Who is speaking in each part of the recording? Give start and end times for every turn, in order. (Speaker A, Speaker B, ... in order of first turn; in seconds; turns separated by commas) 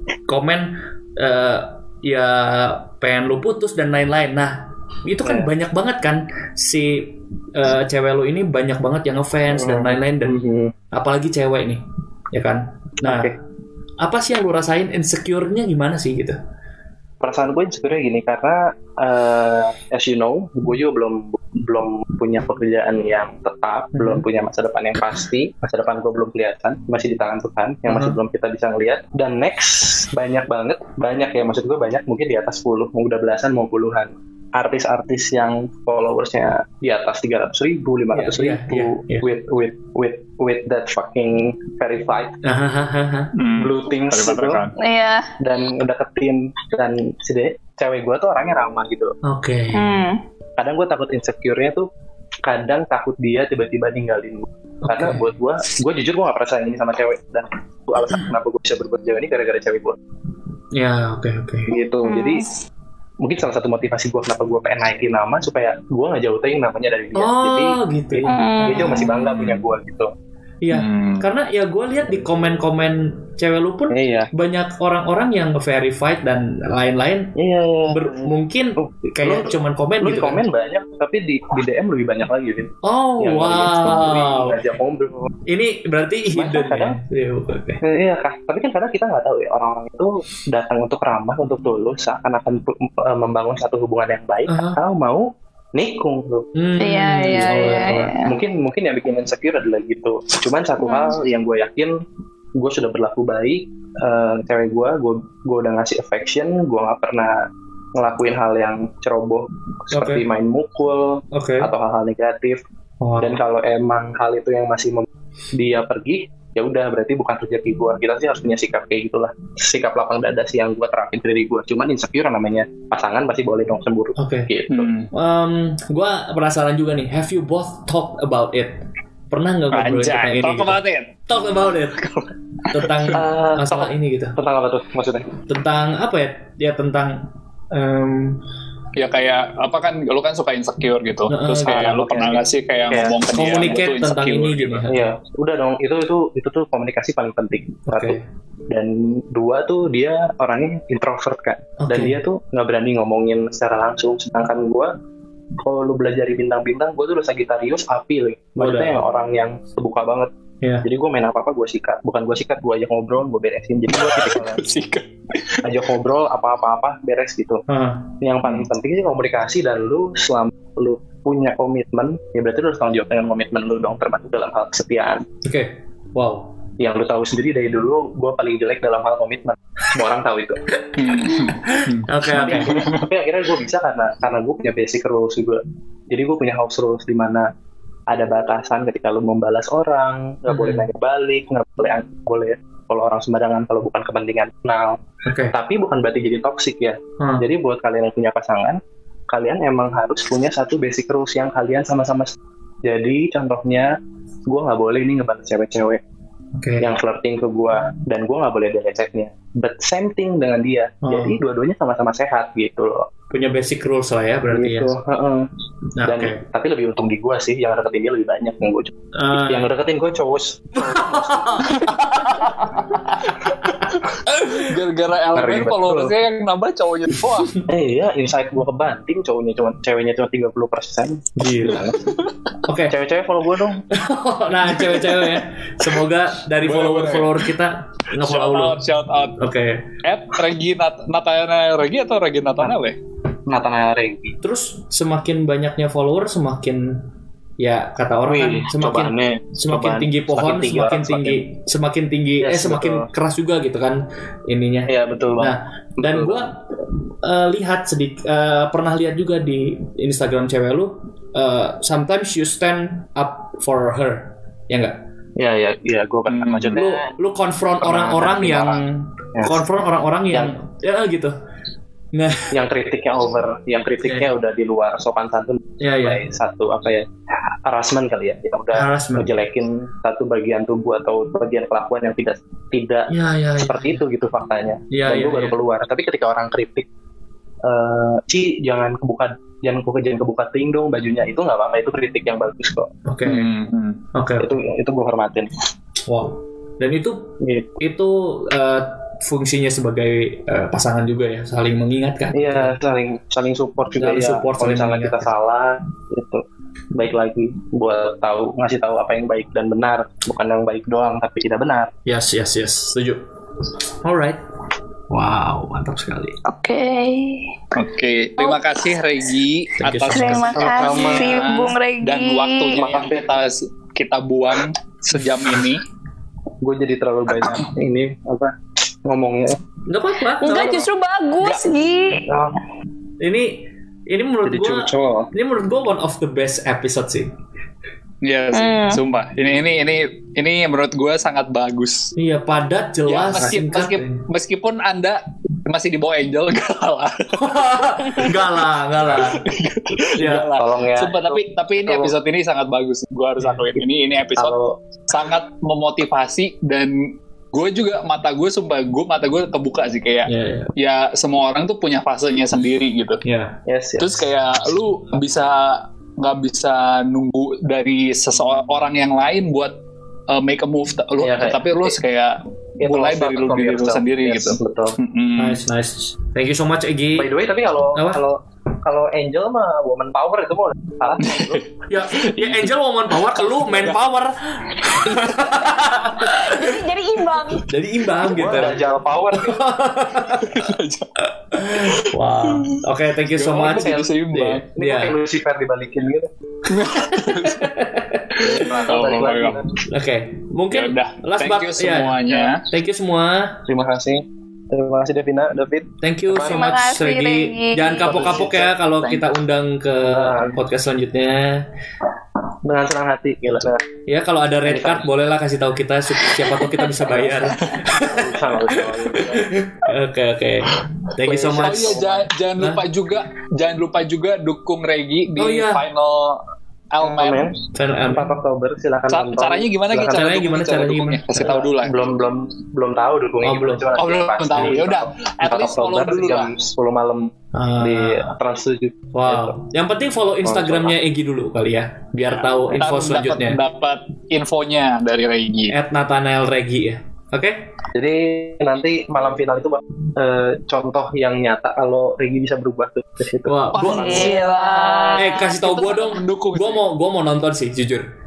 Speaker A: 0.3-10.4, Speaker B: 5.2-5.5, Speaker B: 9.5-10.7, Speaker A: 10.9-13.3, Speaker B: 13.0-13.3, Speaker A: 14.0-16.4, Speaker B: 17.2-42.4, Speaker A: 23.9-24.2, Speaker A: 27.9-28.2, Speaker A: 38.1-39.3, Speaker A: 42.4-43.3, Speaker C: 43.4-44.8, Speaker B: 43.6-44.6, Speaker D: 44.8-45.3, Speaker B: 45.4-49.1, Speaker A: 49.2-50.0, Speaker D: 49.7-50.2, Speaker B: 50.6-51.9, Speaker B: 52.5-60.0, Speaker A: 54.8-55.2, Speaker A: 60.7-61.7, Speaker B: 61.7-62.5, Speaker D: 62.0-62.5, Speaker B: 63.2-70.1, Speaker A: 67.2-69.6, Speaker D: 68.3-69.3, Speaker A: 70.6-77.4, Speaker C: 70.7-71.3, Speaker B: 73.9-74.3, Speaker B: 77.4-85.3, Speaker A: 77.9-80.4, Speaker A: 82.8-84.6, Speaker A: 85.5-87.8, Speaker B: 86.3-87.0, Speaker B: 87.8-96.5, Speaker A: 94.5-94.8, Speaker A: 96.5-98.1, Speaker D: 96.8-98.3, Speaker B: 97.4-102.0, Speaker D: 100.8-101.2, Speaker B: 102.6-112.6, Speaker A: 109.9-110.3, Speaker A: 111.3-111.7, Speaker A: 113.0-113.4, Speaker B: 113.2-124.9, Speaker A: 124.2-124.5, Speaker C: 124.7-125.1, Speaker A: 125.1-128.8, Speaker A: 129.3-132.0, Speaker C: 129.7-131.2, Speaker C: 132.0-132.9, Speaker A: 132.7-134.4, Speaker B: 133.1-135.3, Speaker A: 135.5-138.4, Speaker C: 139.0-144.9, Speaker A: 141.3-142.4, Speaker B: 141.7-143.9, Speaker A: 143.3-145.1, Speaker B: 144.9-148.2, Speaker A: 147.9-148.2, Speaker B: 148.7-154.9, Speaker A: 151.8-152.2, Speaker B: 155.6-160.3, Speaker A: 158.6-159.0, Speaker B: 160.8-164.6, Speaker C: 163.9-165.6, Speaker B: 165.6-167.6, Speaker A: 167.7-168.5, Speaker B: 168.2-175.2, Speaker A: 175.4-176.6, Speaker B: 176.8-180.6, Speaker C: 181.0-183.0, Speaker A: 181.5-182.8, Speaker B: 182.3-187.5, Speaker B: 188.1-195.0, Speaker A: 190.5-190.9, Speaker A: 195.3-195.5, Speaker B: 195.5-202.3, Speaker A: 197.2-197.5, Speaker B: 202.8-203.9, Speaker B: 204.5-206.0, Speaker A: 206.6-206.9, Speaker B: 206.8-213.1, Speaker A: 211.1-211.4, Speaker A: 213.3-214.9, Speaker B: 214.5-215.5, Speaker A: 216.0-216.4, Speaker B: 216.0-221.7, Speaker A: 219.1-219.7, Speaker A: 220.8-224.7, Speaker C: 221.7-222.8, Speaker C: 223.3-227.5, Speaker B: 225.3-226.1, Speaker B: 227.7-232.2, Speaker A: 231.4-231.9, Speaker C: 231.6-232.5, Speaker A: 232.7-233.0, Speaker B: 232.8-233.9, Speaker A: 233.9-238.8, Speaker C: 234.7-235.4, Speaker C: 236.6-237.5, Speaker C: 238.2-239.4, Speaker A: 239.4-239.9, Speaker C: 240.0-243.0, Speaker B: 243.5-244.4, Speaker A: 244.4-247.1, Speaker A: 247.6-265.0, Speaker B: 248.2-251.4, Speaker B: 252.4-253.1, Speaker B: 254.9-256.5, Speaker B: 265.4-267.1, Speaker C: 266.3-266.8, Speaker A: 266.7-271.4, Speaker B: 267.8-269.6, Speaker A: 272.1-272.6, Speaker B: 272.5-277.1, Speaker A: 274.0-274.4, Speaker A: 275.8-276.2, Speaker B: 277.6-286.9, Speaker A: 278.7-279.4, Speaker A: 283.1-284.0, Speaker A: 284.9-285.6, Speaker B: 287.6-292.9, Speaker A: 293.1-293.5, Speaker C: 293.2-294.0, Speaker A: 294.1-294.6, Speaker B: 294.4-295.5, Speaker A: 296.1-302.8, Speaker B: 297.4-297.8, Speaker B: 302.3-311.9, Speaker A: 304.0-305.3, Speaker A: 312.1-313.2, Speaker A: 314.0-314.4, Speaker A: 315.1-316.4, Speaker D: 316.4-317.6, Speaker C: 317.7-325.8, Speaker A: 319.8-320.7, Speaker D: 320.1-322.8, Speaker B: 320.5-321.5, Speaker B: 322.7-323.3, Speaker B: 326.6-329.6, Speaker A: 329.9-330.9, Speaker D: 330.4-332.3, Speaker B: 332.3-332.6, Speaker A: 333.2-337.4, Speaker B: 334.4-335.3, Speaker C: 338.2-342.1, Speaker D: 338.5-339.0, Speaker A: 342.2-344.2, Speaker C: 343.1-348.3, Speaker A: 347.4-349.5, Speaker C: 349.1-354.6, Speaker A: 350.2-350.5, Speaker B: 350.2-352.1, Speaker B: 354.4-354.8, Speaker C: 355.1-363.2, Speaker A: 360.3-360.7, Speaker A: 363.2-363.6, Speaker B: 363.7-364.2, Speaker C: 364.0-375.6, Speaker B: 371.2-372.0, Speaker B: 372.8-375.0, Speaker A: 375.4-377.3, Speaker B: 377.2-381.6, Speaker A: 377.9-378.2, Speaker C: 381.2-381.6, Speaker A: 381.9-386.8, Speaker C: 382.2-382.6, Speaker C: 383.3-384.0, Speaker C: 384.9-385.6, Speaker D: 386.2-387.7, Speaker A: 387.7-395.2, Speaker B: 388.2-389.6, Speaker C: 390.3-392.8, Speaker C: 393.3-394.6, Speaker B: 393.6-396.3, Speaker C: 396.7-397.7, Speaker A: 397.0-398.9, Speaker B: 398.4-399.7, Speaker C: 398.4-399.6, Speaker A: 399.9-403.6, Speaker C: 400.7-402.6, Speaker B: 403.7-406.7, Speaker A: 406.0-411.6, Speaker D: 406.4-408.2, Speaker B: 408.0-409.2, Speaker B: 410.1-410.6, Speaker B: 412.6-413.8, Speaker A: 414.1-422.8, Speaker B: 414.6-415.1, Speaker B: 417.0-419.6, Speaker B: 421.2-422.2, Speaker C: 421.5-426.4, Speaker A: 425.4-425.9, Speaker C: 426.9-427.5, Speaker B: 427.0-430.6, Speaker A: 427.8-428.4, Speaker C: 429.1-432.0, Speaker A: 430.1-431.5, Speaker B: 431.1-439.6, Speaker A: 433.4-433.9, Speaker C: 434.0-436.5, Speaker A: 434.5-434.8, Speaker A: 437.5-438.3, Speaker A: 439.1-443.6, Speaker B: 440.4-441.0, Speaker C: 442.7-445.8, Speaker A: 445.7-447.7, Speaker B: 447.9-454.4, Speaker A: 453.5-454.4, Speaker C: 453.7-456.8, Speaker D: 453.8-455.6, Speaker A: 455.2-458.1